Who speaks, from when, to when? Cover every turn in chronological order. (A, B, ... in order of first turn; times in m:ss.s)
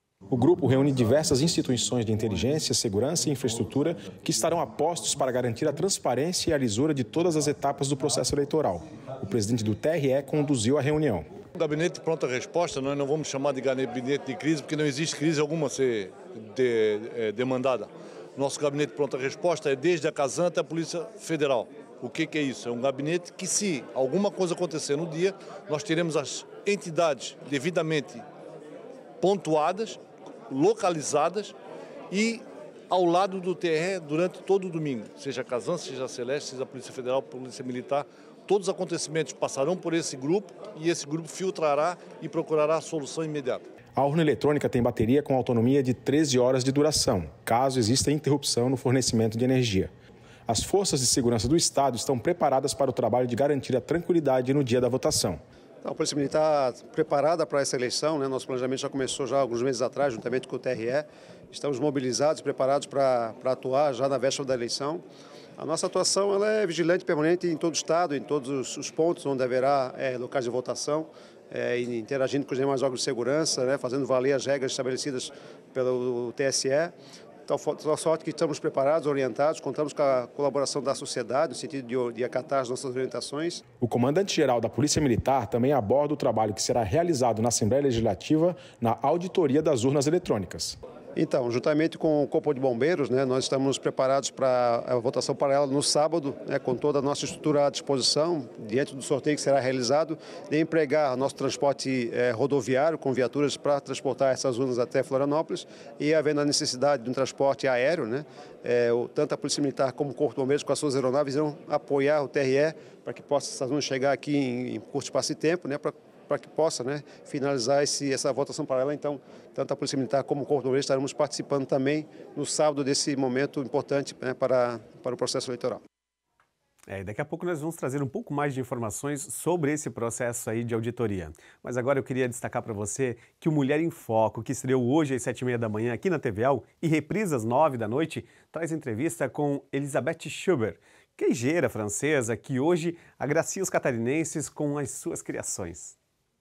0:00.3-0:11.3 A
0:11.6-0:28.2 B
0:29.2-0:31.6 B
0:32.1-0:43.6 B
0:44.0-0:49.9 A
0:50.5-0:55.4 A
0:55.8-1:05.0 C
1:05.6-1:17.0 C
1:17.5-1:23.6 C
1:23.8-1:30.8 A
1:31.2-2:05.8 C
2:06.9-2:26.0 D